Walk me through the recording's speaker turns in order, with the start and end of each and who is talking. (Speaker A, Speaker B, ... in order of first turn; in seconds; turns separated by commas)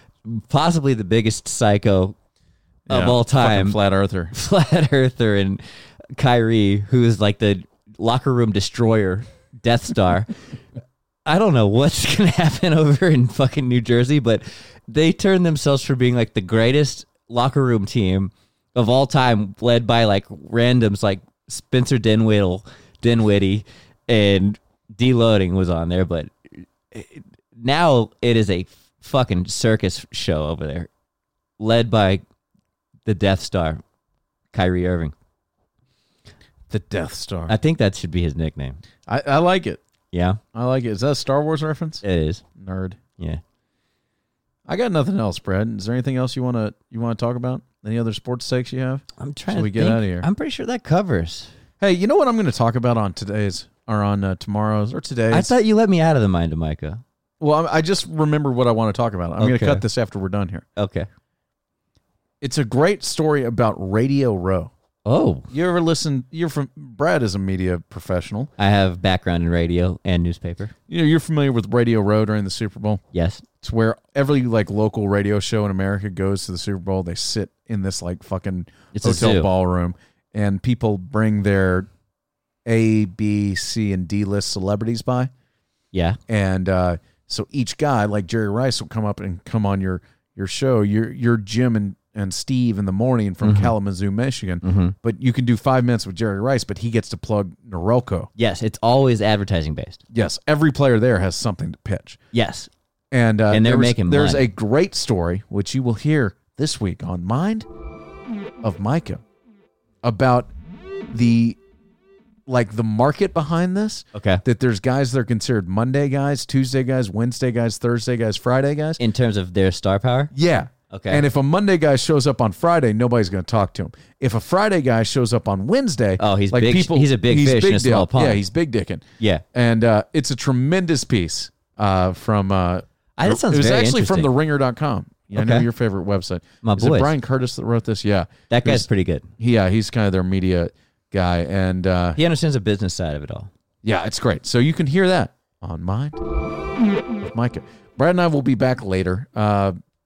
Speaker A: 0.2-2.1, Speaker B: 2.9-4.3, Speaker A: 2.9-3.8, Speaker A: 4.3-5.6, Speaker A: 6.2-10.3, Speaker A: 11.2-26.3, Speaker A: 26.9-30.9, Speaker A: 31.6-32.2, Speaker A: 33.0-33.8, Speaker A: 34.5-35.1, Speaker B: 36.7-37.5, Speaker A: 37.5-38.8, Speaker B: 39.1-39.8, Speaker A: 40.1-40.4, Speaker B: 40.5-42.0, Speaker A: 42.0-42.4, Speaker B: 42.5-43.0, Speaker B: 44.7-50.3, Speaker A: 49.2-51.5, Speaker B: 51.8-55.5, Speaker A: 55.3-57.0, Speaker B: 57.4-60.6, Speaker A: 59.4-59.8, Speaker A: 60.8-61.1, Speaker B: 62.4-64.7, Speaker A: 65.0-65.5, Speaker B: 65.5-68.5, Speaker A: 68.6-70.7, Speaker B: 70.9-73.0, Speaker A: 73.1-73.4, Speaker B: 73.6-81.8, Speaker A: 78.9-79.5, Speaker B: 82.7-85.3, Speaker A: 85.9-86.2, Speaker B: 86.3-98.3, Speaker A: 93.4-93.7, Speaker A: 94.6-94.9, Speaker A: 98.4-100.0, Speaker B: 100.1-102.2, Speaker A: 102.3-102.7, Speaker B: 103.1-107.7, Speaker A: 103.5-104.5, Speaker B: 108.6-109.2, Speaker B: 110.0-110.5, Speaker B: 111.1-111.6, Speaker B: 112.5-119.0, Speaker A: 114.1-114.4, Speaker A: 119.0-120.3, Speaker B: 120.3-138.9, Speaker A: 120.9-121.2, Speaker A: 126.2-128.4, Speaker A: 133.2-134.3, Speaker A: 135.3-135.7, Speaker A: 136.6-137.1, Speaker A: 138.5-139.3, Speaker B: 139.4-142.2, Speaker A: 142.2-143.5, Speaker B: 143.8-146.2, Speaker B: 147.2-149.7